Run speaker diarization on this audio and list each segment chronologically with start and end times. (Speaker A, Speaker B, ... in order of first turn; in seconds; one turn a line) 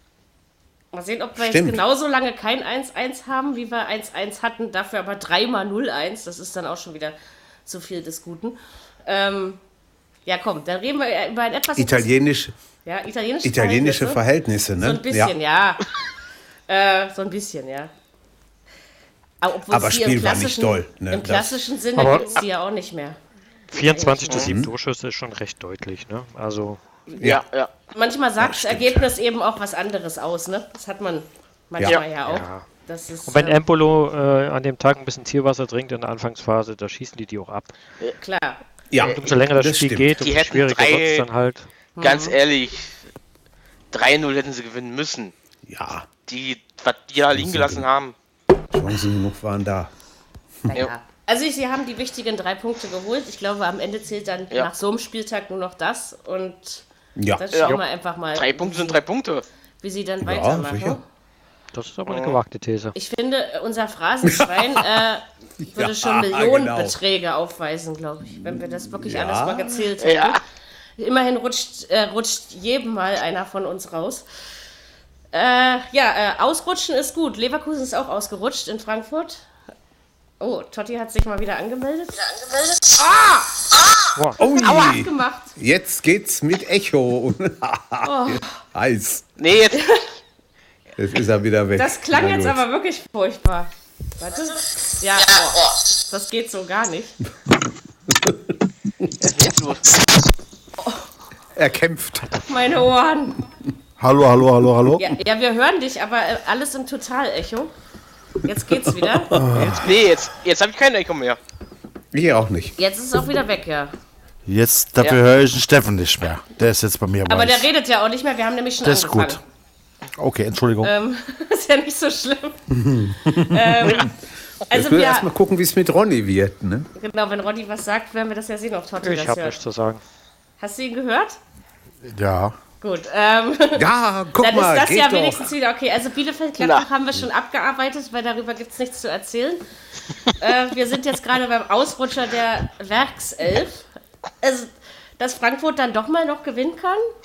Speaker A: 0.9-7.1
Speaker B: 1.4-1.8
Speaker A: 7.7-9.6
Speaker A: 10.2-12.2
Speaker B: 11.8-12.5
Speaker A: 12.8-14.2
Speaker B: 13.4-15.3
Speaker A: 14.8-15.8
Speaker A: 16.7-17.9
Speaker A: 19.4-23.2
Speaker B: 19.7-21.6
Speaker C: 21.9-22.4
Speaker C: 23.7-26.8
Speaker A: 23.7-24.5
Speaker B: 24.3-24.7
Speaker D: 27.2-27.7
Speaker A: 27.9-33.6
Speaker B: 28.4-29.1
Speaker C: 32.2-32.7
Speaker C: 33.3-37.7
Speaker A: 38.2-38.6
Speaker B: 38.9-40.2
Speaker C: 39.0-41.6
Speaker D: 40.2-41.3
Speaker A: 42.0-42.4
Speaker D: 42.0-43.0
Speaker D: 43.9-45.3
Speaker B: 45.6-46.1
Speaker D: 46.3-48.1
Speaker B: 47.3-47.9
Speaker B: 48.7-49.9
Speaker A: 50.7-56.8
Speaker B: 57.1-57.5
Speaker A: 57.4-59.0
Speaker D: 58.3-59.4
Speaker A: 59.8-61.0
Speaker B: 60.2-61.0
Speaker C: 61.7-62.9
Speaker D: 62.1-62.4
Speaker A: 62.9-70.4
Speaker B: 64.2-65.0
Speaker B: 65.6-67.0
Speaker B: 68.4-69.9
Speaker D: 70.0-70.4
Speaker A: 71.0-74.2
Speaker A: 75.3-79.5
Speaker A: 80.4-83.8
Speaker A: 84.3-85.5
Speaker B: 84.4-89.2
Speaker A: 88.0-88.6
Speaker D: 89.4-89.9
Speaker A: 89.7-90.0
Speaker B: 91.0-92.6
Speaker A: 91.8-97.2
Speaker B: 98.1-98.4
Speaker D: 99.2-100.1
Speaker A: 100.8-101.0
Speaker B: 101.5-102.4
Speaker A: 102.5-103.4
Speaker E: 104.0-105.0
Speaker A: 105.0-107.7
Speaker A: 108.4-109.3
Speaker B: 108.7-109.9
Speaker E: 109.3-109.8
Speaker D: 109.7-111.4
Speaker B: 112.1-112.8
Speaker A: 112.8-113.9
Speaker E: 114.5-117.7
Speaker A: 117.3-119.4
Speaker E: 118.8-119.4
Speaker E: 120.2-120.9
Speaker A: 120.8-122.7
Speaker B: 122.7-124.1
Speaker A: 123.3-124.1
Speaker A: 124.7-125.3
Speaker B: 124.7-126.9
Speaker A: 126.9-129.6
Speaker C: 129.0-130.0
Speaker A: 130.6-131.4
Speaker E: 132.0-132.6
Speaker A: 132.8-139.6
Speaker B: 133.7-135.5
Speaker D: 136.6-136.8
Speaker A: 140.3-143.9
Speaker A: 144.4-147.0